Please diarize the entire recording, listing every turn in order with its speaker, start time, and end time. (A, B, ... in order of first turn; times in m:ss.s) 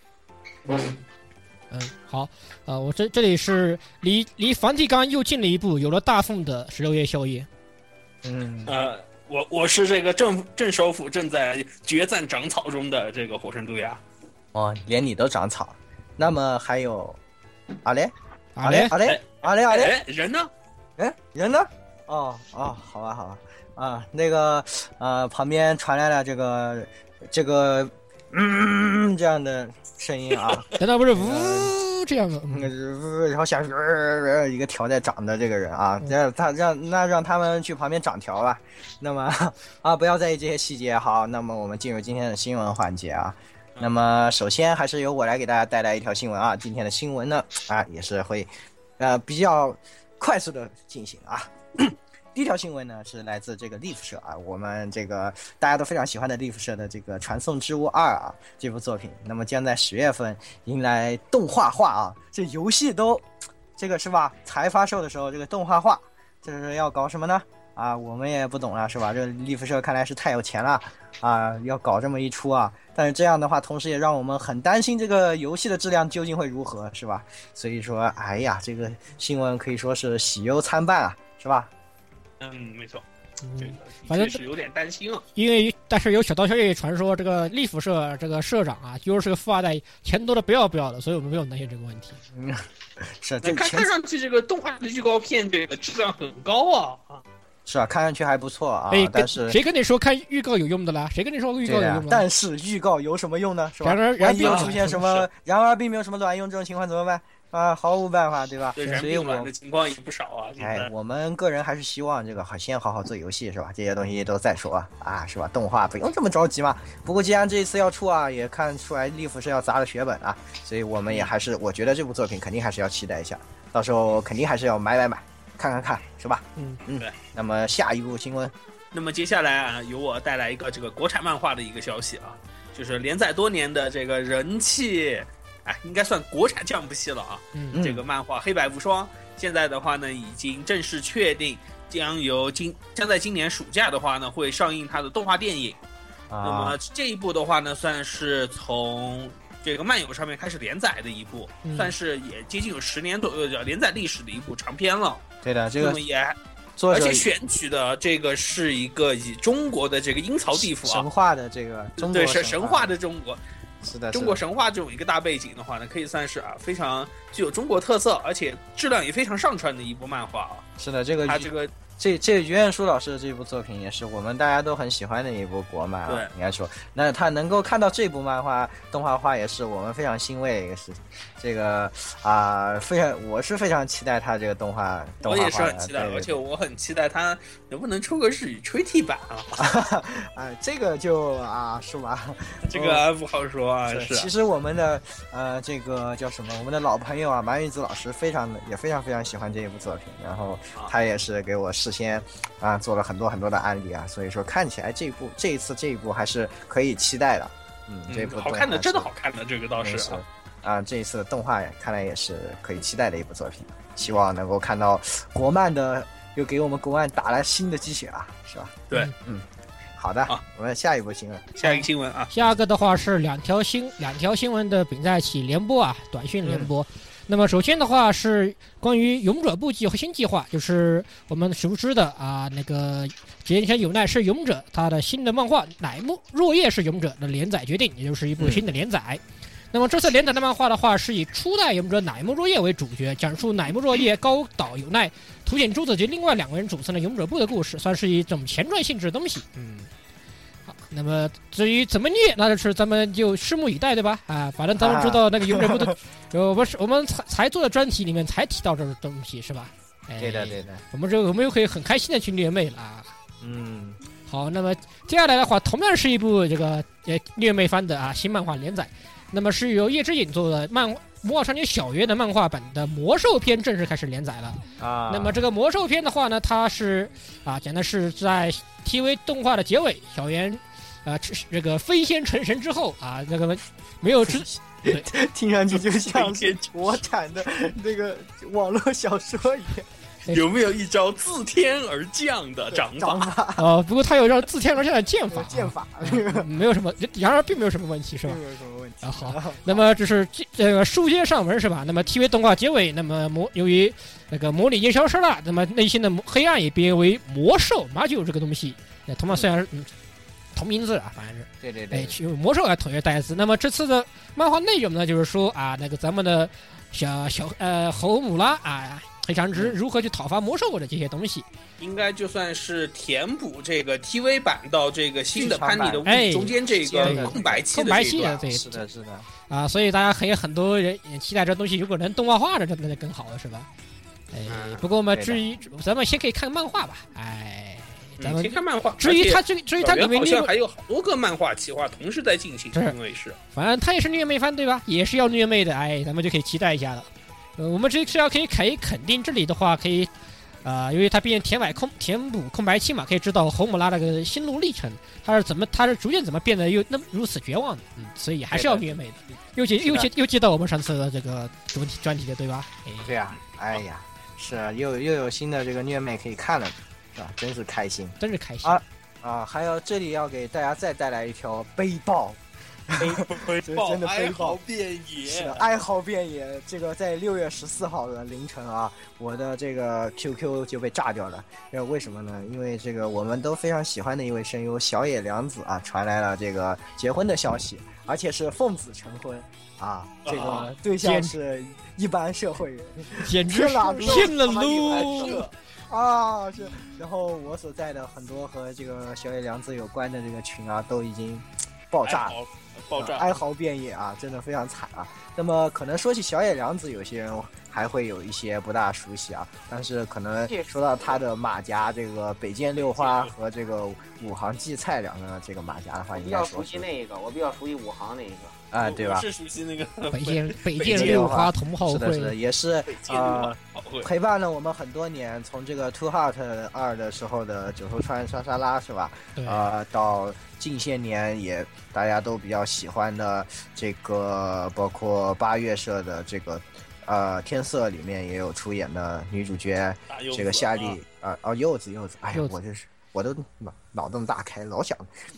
0:00.6-0:00.9 A
0:01.7-0:07.5 B
0:08.2-0:08.7 A
0:08.6-0:14.0 C
0:14.5-0:17.2 A
0:17.8-0:19.9 A
0:18.6-0:18.9 B
0:19.0-0:20.5 C
0:21.0-0:31.7 A
0:30.8-0:32.7 B
0:32.5-1:03.2 A
1:03.8-1:21.7 A
1:22.4-1:23.0 C
1:23.4-1:24.4 B
1:23.6-1:25.2 C
1:25.4-1:32.2 B
1:32.3-1:33.9 A
1:33.4-1:37.2 C
1:37.6-1:39.6 A
1:38.9-1:42.3 B
1:41.6-1:49.5 A
1:43.8-1:44.8 B
1:44.4-1:45.3 C
1:48.8-1:50.9 C
1:50.6-2:08.5 A
2:08.9-2:25.8 C
2:17.7-2:18.0 A
2:26.3-2:26.8 A
2:26.4-2:35.2 C
2:31.6-2:31.9 B
2:35.4-2:36.0 A
2:35.8-2:36.4 C
2:36.8-2:37.3 A
2:36.9-2:41.0 C
2:40.5-2:42.9 A
2:42.0-2:43.4 C
2:43.8-2:44.4 A
2:44.1-2:50.6 C
2:50.8-3:06.3 A
2:51.2-2:51.7 C
3:05.2-3:09.6 C
3:09.6-3:13.0 A
3:12.7-3:14.3 C
3:13.9-3:29.1 A
3:28.1-3:30.2 C
3:29.8-3:39.4 A
3:40.0-3:41.5 A
3:41.6-3:42.3 C
3:41.6-4:09.9 B
3:46.4-3:46.7 A
3:58.4-3:58.6 A
4:10.7-4:23.1 B
4:14.8-4:16.0 A
4:20.2-4:20.8 A
4:23.4-4:24.0 A
4:24.3-4:45.1 B
4:34.8-4:35.4 A
4:44.2-4:49.9 A
4:46.0-4:46.6 C
4:50.3-4:53.3 C
4:52.7-4:53.7 A
4:53.6-4:58.4 B
4:55.3-4:56.5 A
4:58.2-4:59.8 A
4:59.0-5:09.9 B
5:10.5-5:21.4 B
5:11.6-5:12.2 A
5:21.8-5:28.3 C
5:25.3-5:26.0 A
5:26.0-5:28.8 B
5:26.8-5:29.3 A
5:29.5-5:33.7 B
5:34.3-5:40.5 B
5:34.5-5:35.4 A
5:38.2-5:43.4 C
5:43.5-5:50.1 B
5:50.6-6:03.1 B
5:58.5-5:58.9 A
5:59.8-6:00.1 A
6:03.0-6:14.6 A
6:08.2-6:08.8 B
6:13.0-6:15.6 C
6:15.2-6:42.4 A
6:30.2-6:30.7 C
6:31.0-6:31.3 B
6:33.2-6:35.4 B
6:34.0-6:35.5 C
6:42.0-6:43.3 C
6:43.0-6:56.9 A
6:50.5-6:51.2 D
6:52.9-6:53.3 C
6:56.2-6:58.6 D
6:58.7-6:59.2 A
6:58.8-7:01.2 C
7:00.1-7:02.3 B
7:00.9-7:25.1 A
7:03.0-7:04.1 C
7:09.4-7:09.7 B
7:20.1-7:21.0 C